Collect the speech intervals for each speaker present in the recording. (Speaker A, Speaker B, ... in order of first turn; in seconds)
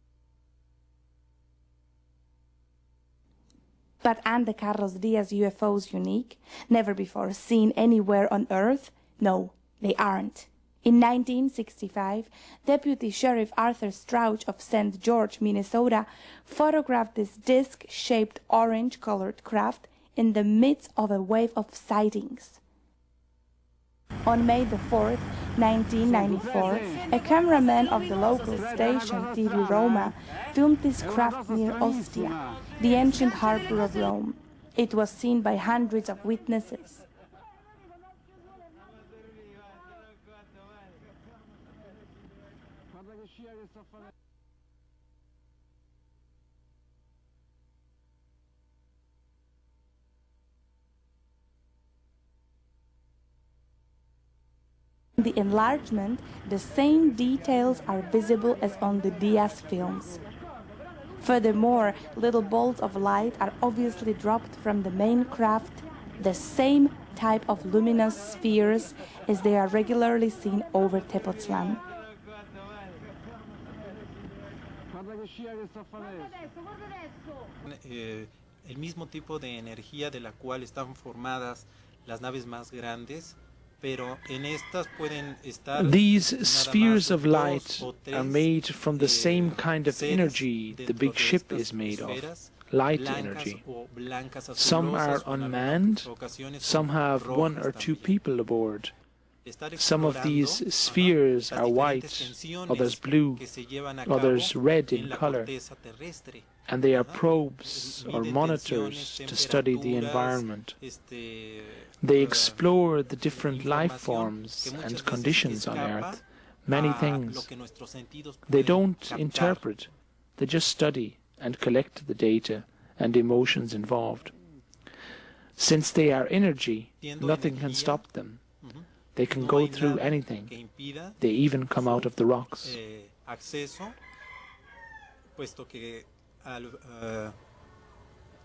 Speaker A: 4.0-22.6, 24.2-37.0, 55.2-60.2, 61.2-71.8
Speaker B: 77.6-88.4, 89.0-98.1, 99.4-112.6, 113.3-119.6, 127.0-128.0, 128.6-131.2, 131.7-132.1, 132.6-133.9, 135.3-137.3
Speaker C: 85.8-93.6, 94.5-96.1, 96.6-98.9, 99.8-103.4, 104.0-105.5, 106.7-110.8, 112.0-117.5, 118.5-124.3, 125.6-128.4, 129.1-130.5, 131.2-132.8